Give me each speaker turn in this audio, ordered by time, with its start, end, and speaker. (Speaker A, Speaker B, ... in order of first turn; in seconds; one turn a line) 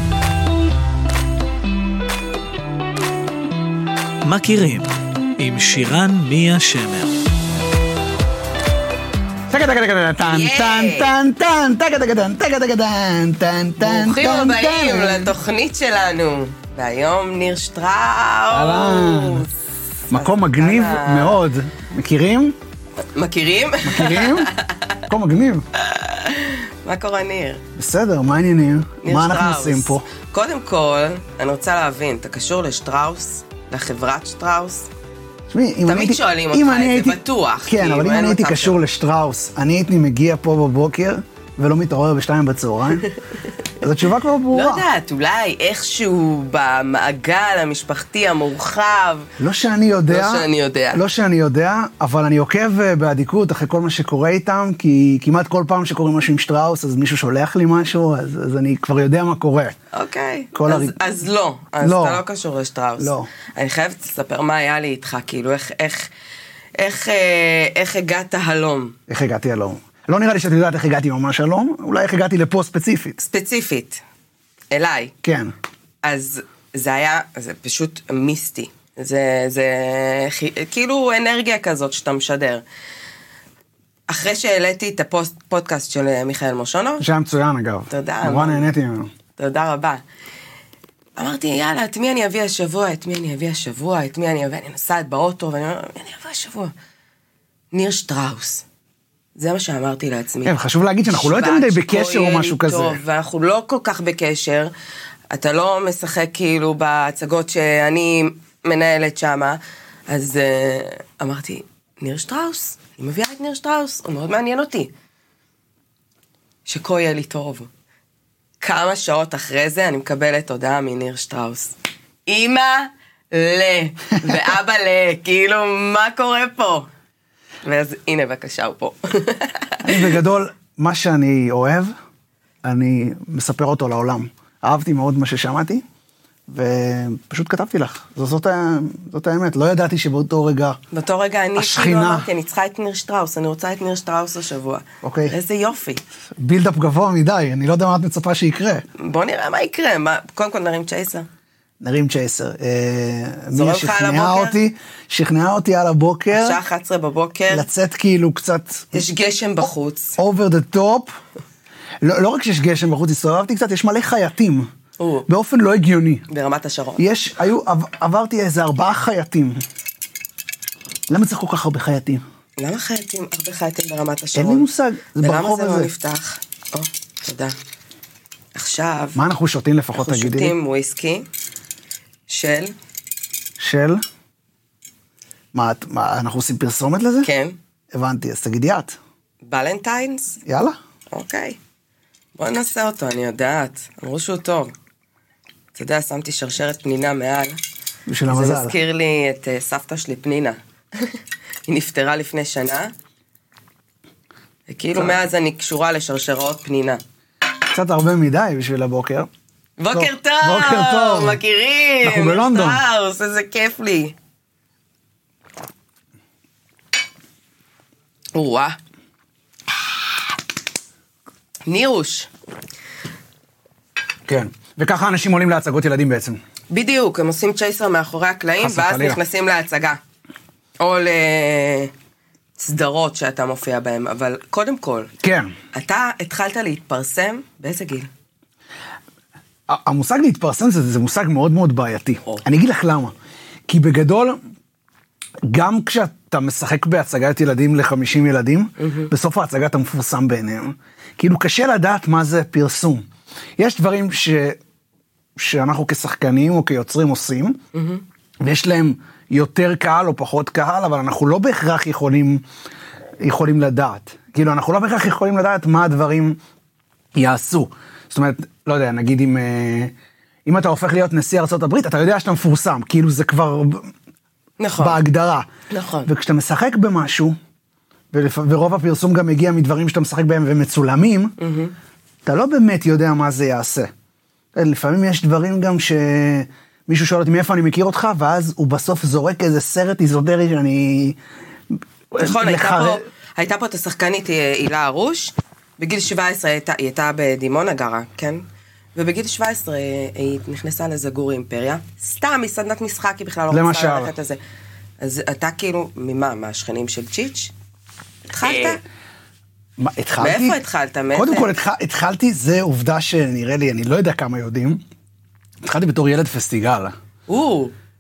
Speaker A: 4.2-7.2
Speaker B: 9.5-15.3
Speaker C: 10.3-11.1
Speaker C: 13.8-19.5
Speaker B: 18.5-19.5
Speaker C: 20.1-21.4
Speaker B: 20.1-22.6
Speaker C: 23.0-25.0
Speaker B: 23.8-24.5
Speaker B: 25.1-25.6
Speaker C: 25.8-27.6
Speaker B: 27.8-30.1
Speaker C: 29.0-34.9
Speaker B: 35.5-43.1
Speaker C: 35.9-38.8
Speaker B: 43.8-44.9
Speaker C: 44.5-49.3
Speaker B: 49.4-59.8
Speaker C: 50.1-51.0
Speaker C: 59.9-66.1
Speaker B: 60.5-61.0
Speaker B: 61.8-62.2
Speaker B: 63.0-63.3
Speaker C: 66.8-69.0
Speaker B: 69.1-73.2
Speaker C: 73.2-74.0
Speaker C: 74.7-75.1
Speaker B: 75.2-75.5
Speaker C: 76.0-82.6
Speaker C: 84.1-87.0
Speaker B: 87.0-89.1
Speaker C: 87.9-88.7
Speaker C: 89.4-90.0
Speaker C: 91.2-96.7
Speaker C: 97.7-98.7
Speaker C: 99.4-100.6
Speaker B: 100.5-103.0
Speaker C: 101.1-104.7
Speaker C: 105.3-114.9
Speaker C: 116.7-117.7
Speaker C: 118.6-121.8
Speaker C: 122.3-126.9
Speaker C: 127.7-130.2
Speaker B: 129.8-131.9
Speaker B: 132.6-135.8
Speaker B: 136.5-140.8
Speaker C: 140.9-146.0
Speaker B: 141.6-142.3
Speaker B: 145.0-145.3
Speaker B: 146.4-148.8
Speaker C: 149.0-151.3
Speaker B: 151.8-156.6
Speaker C: 153.5-154.6
Speaker C: 156.3-157.7
Speaker B: 157.5-159.1
Speaker C: 158.9-160.2
Speaker B: 160.2-161.1
Speaker B: 162.0-164.7
Speaker C: 165.0-165.3
Speaker B: 165.3-166.2
Speaker C: 166.3-167.1
Speaker B: 167.0-169.6
Speaker B: 171.1-172.2
Speaker C: 172.6-174.7
Speaker B: 174.3-175.9
Speaker C: 175.2-177.6
Speaker C: 178.6-179.2
Speaker B: 179.2-180.6
Speaker C: 180.0-181.3
Speaker C: 182.3-182.7
Speaker B: 183.6-184.0
Speaker B: 185.5-187.3
Speaker C: 187.2-187.6
Speaker B: 187.9-189.0
Speaker C: 189.4-190.4
Speaker B: 190.4-190.8
Speaker C: 191.1-191.6
Speaker C: 192.4-194.7
Speaker C: 195.8-197.6
Speaker B: 198.1-198.8
Speaker C: 198.3-202.9
Speaker C: 204.7-207.0
Speaker B: 204.9-205.2
Speaker B: 207.7-209.3
Speaker C: 209.8-214.2
Speaker B: 209.9-211.4
Speaker B: 212.0-212.8
Speaker C: 218.3-218.8
Speaker C: 221.7-222.3
Speaker B: 224.3-226.4
Speaker C: 226.7-230.0
Speaker B: 228.6-229.2
Speaker C: 230.8-231.9
Speaker C: 232.6-235.1
Speaker B: 235.2-235.5
Speaker C: 235.7-238.1
Speaker B: 239.7-243.1
Speaker B: 243.7-244.4
Speaker B: 245.4-253.1
Speaker C: 248.8-249.1
Speaker B: 253.6-254.6
Speaker B: 255.4-257.6
Speaker C: 257.7-258.0
Speaker B: 258.4-262.4
Speaker B: 263.2-266.4
Speaker B: 267.1-269.9
Speaker B: 270.5-273.9
Speaker C: 274.6-275.0
Speaker B: 274.8-275.5
Speaker C: 275.7-276.1
Speaker B: 276.1-277.4
Speaker B: 278.1-281.4
Speaker C: 281.4-281.7
Speaker B: 282.2-283.9
Speaker B: 284.6-291.2
Speaker B: 292.1-293.0
Speaker C: 292.2-298.4
Speaker C: 298.9-304.4
Speaker B: 303.5-304.1
Speaker C: 305.0-307.5
Speaker C: 308.3-308.8
Speaker B: 308.4-308.8
Speaker B: 309.8-310.6
Speaker C: 310.2-311.5
Speaker B: 311.1-314.8
Speaker B: 315.6-316.9
Speaker C: 317.3-317.7